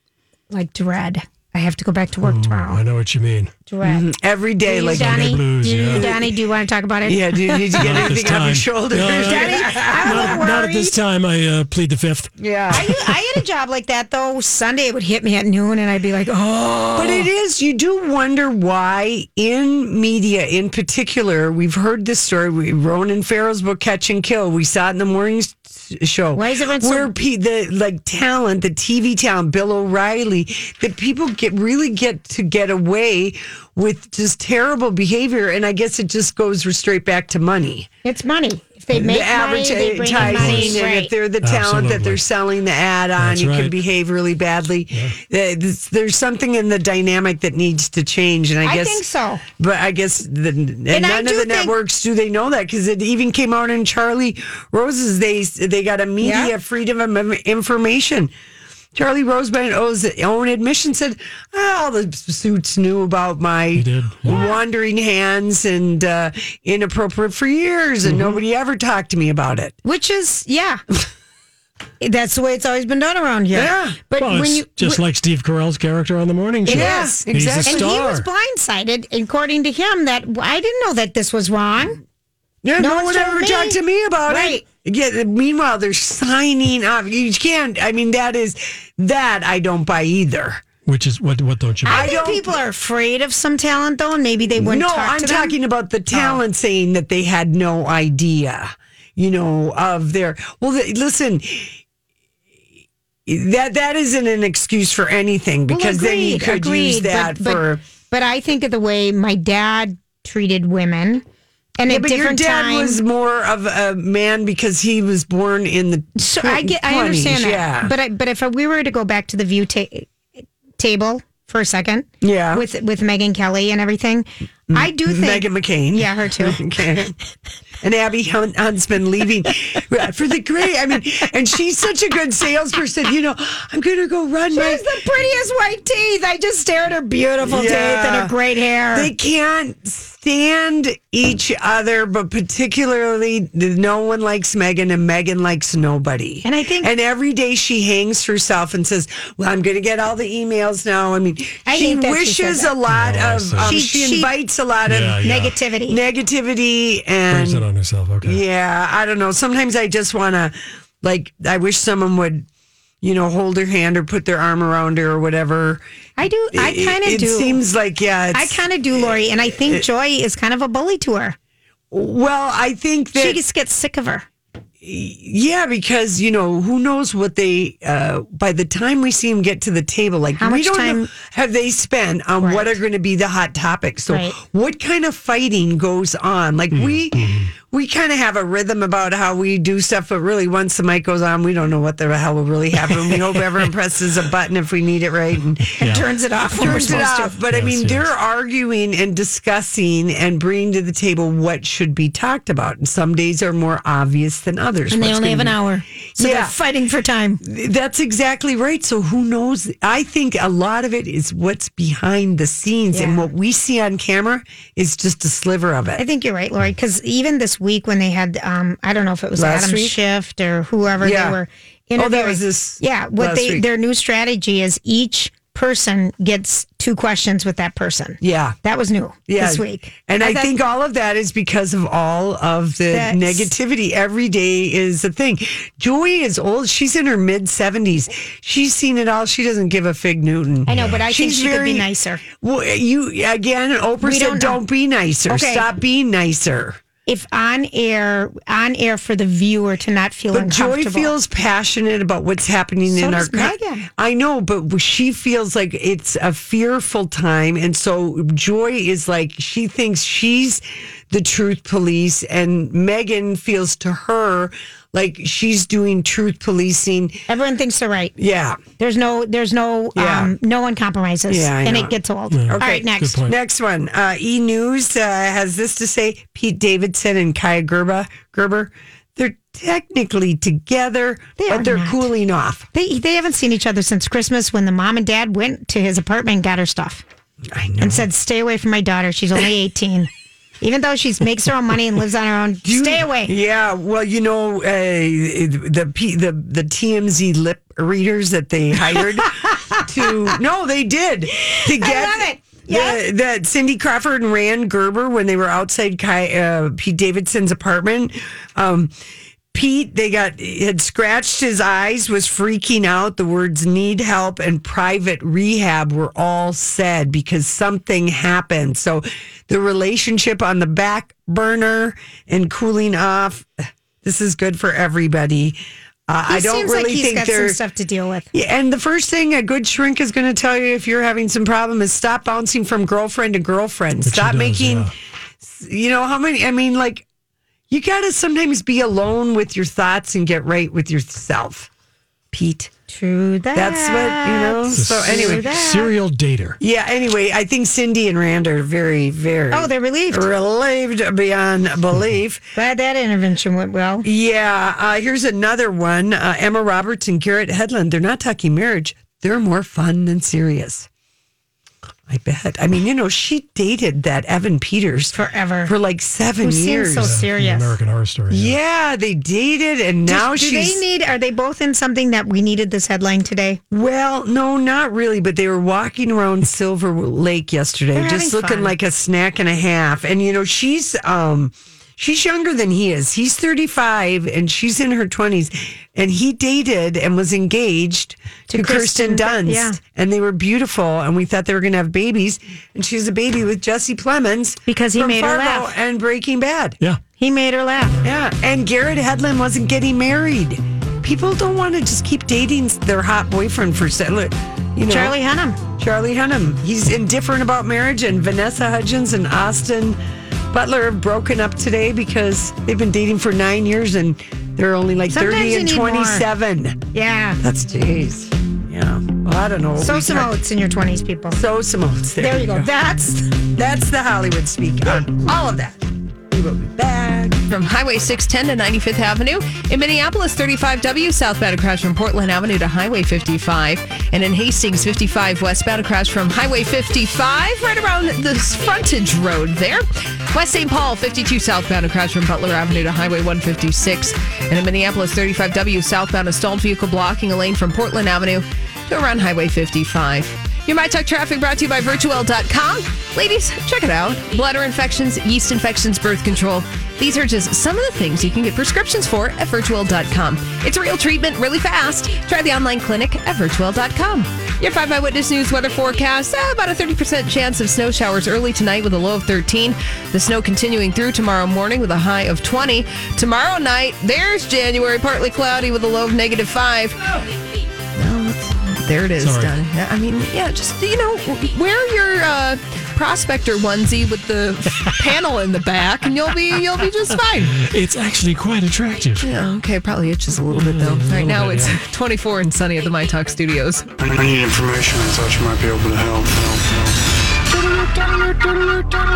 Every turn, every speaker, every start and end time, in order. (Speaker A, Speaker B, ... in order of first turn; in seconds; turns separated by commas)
Speaker A: 0.5-2.8, Speaker B: 2.2-3.5, Speaker A: 3.7-4.0, Speaker C: 3.8-6.3, Speaker A: 4.6-8.2, Speaker B: 4.8-6.1, Speaker C: 7.0-10.5, Speaker B: 7.8-13.0, Speaker A: 9.1-11.0, Speaker C: 12.4-12.9, Speaker A: 12.7-17.3, Speaker C: 16.9-37.9, Speaker A: 26.3-27.1, Speaker A: 38.0-41.1, Speaker C: 38.9-49.0, Speaker B: 40.1-40.8, Speaker B: 41.4-42.2, Speaker B: 43.2-43.7, Speaker A: 48.6-49.4, Speaker C: 49.6-58.3, Speaker A: 50.9-51.7, Speaker A: 56.2-56.5, Speaker C: 58.9-69.7, Speaker B: 63.7-64.5, Speaker B: 68.1-68.3, Speaker A: 69.8-70.8, Speaker A: 72.0-75.0, Speaker C: 73.5-74.0, Speaker B: 74.2-78.2, Speaker A: 76.6-82.0, Speaker C: 76.7-78.0, Speaker C: 82.6-90.6, Speaker A: 82.8-84.6, Speaker B: 90.8-92.1, Speaker C: 91.8-92.6, Speaker A: 91.8-95.5, Speaker C: 94.5-101.8, Speaker A: 96.1-96.4, Speaker C: 103.2-107.8, Speaker A: 105.7-111.2, Speaker A: 111.8-113.0, Speaker C: 111.9-117.9, Speaker A: 116.2-120.2, Speaker A: 120.8-126.6, Speaker C: 122.2-122.6, Speaker C: 124.7-127.1, Speaker C: 127.8-134.8, Speaker A: 134.5-139.1, Speaker C: 137.4-138.3, Speaker C: 138.9-155.3, Speaker A: 146.4-146.9, Speaker A: 151.7-152.7, Speaker B: 152.9-153.8, Speaker A: 153.6-154.3, Speaker B: 154.9-155.5, Speaker A: 155.2-156.0, Speaker C: 155.9-157.7, Speaker B: 157.3-158.4, Speaker C: 158.2-162.4, Speaker C: 163.0-165.8, Speaker A: 166.2-167.6, Speaker C: 166.5-169.8, Speaker A: 168.3-171.3, Speaker C: 171.9-173.4, Speaker A: 173.1-174.3, Speaker C: 174.8-195.8, Speaker A: 180.4-181.1, Speaker A: 182.4-182.8, Speaker A: 184.1-184.4, Speaker B: 186.7-187.5, Speaker A: 195.8-197.4, Speaker B: 195.8-196.0, Speaker C: 196.5-205.6, Speaker B: 196.6-198.1, Speaker A: 204.9-207.4, Speaker C: 206.1-206.5, Speaker C: 207.4-216.0, Speaker A: 212.9-213.3, Speaker A: 216.0-230.5, Speaker C: 219.3-220.0, Speaker C: 221.0-221.4, Speaker C: 222.0-223.6, Speaker C: 228.2-228.6, Speaker C: 229.3-246.8, Speaker A: 232.9-233.5, Speaker A: 240.7-242.2, Speaker A: 244.0-244.6, Speaker A: 245.3-245.7, Speaker A: 247.1-251.1, Speaker C: 250.3-267.2, Speaker A: 252.9-253.8, Speaker A: 267.3-268.1, Speaker C: 268.2-268.6, Speaker A: 268.8-273.2, Speaker C: 269.9-270.3, Speaker C: 271.3-282.6, Speaker B: 272.3-273.3, Speaker A: 281.4-282.1, Speaker A: 282.7-287.0, Speaker C: 287.5-288.1, Speaker A: 287.8-290.1, Speaker A: 290.6-293.3, Speaker C: 292.6-308.9, Speaker A: 301.4-303.0, Speaker C: 309.5-327.6, Speaker A: 326.3-328.3, Speaker C: 328.3-337.0, Speaker B: 334.0-334.9, Speaker C: 337.7-341.7, Speaker C: 342.3-342.7, Speaker A: 342.9-345.9, Speaker C: 343.5-345.5, Speaker B: 344.7-346.6, Speaker C: 346.6-352.5, Speaker A: 349.5-350.2, Speaker A: 352.5-354.1, Speaker C: 354.0-360.9, Speaker C: 362.1-367.2, Speaker A: 365.1-365.7, Speaker A: 366.4-367.8, Speaker B: 367.0-368.6, Speaker C: 368.3-370.8, Speaker A: 370.1-373.6, Speaker C: 373.7-396.8, Speaker A: 377.9-378.7, Speaker A: 388.5-389.8, Speaker A: 394.7-395.7, Speaker A: 397.2-398.0, Speaker C: 398.0-405.1, Speaker A: 404.9-405.6, Speaker C: 405.8-410.0, Speaker C: 410.5-416.8, Speaker A: 415.1-416.2, Speaker A: 416.9-417.4, Speaker C: 417.4-420.3, Speaker A: 419.8-421.4, Speaker C: 421.3-422.7, Speaker A: 422.2-423.3, Speaker C: 423.5-427.4, Speaker D: 427.5-477.0, Speaker D: 477.9-487.6, Speaker B: 479.2-479.6, Speaker B: 487.5-489.3, Speaker D: 489.2-493.9, Speaker B: 490.4-491.8, Speaker E: 494.0-497.0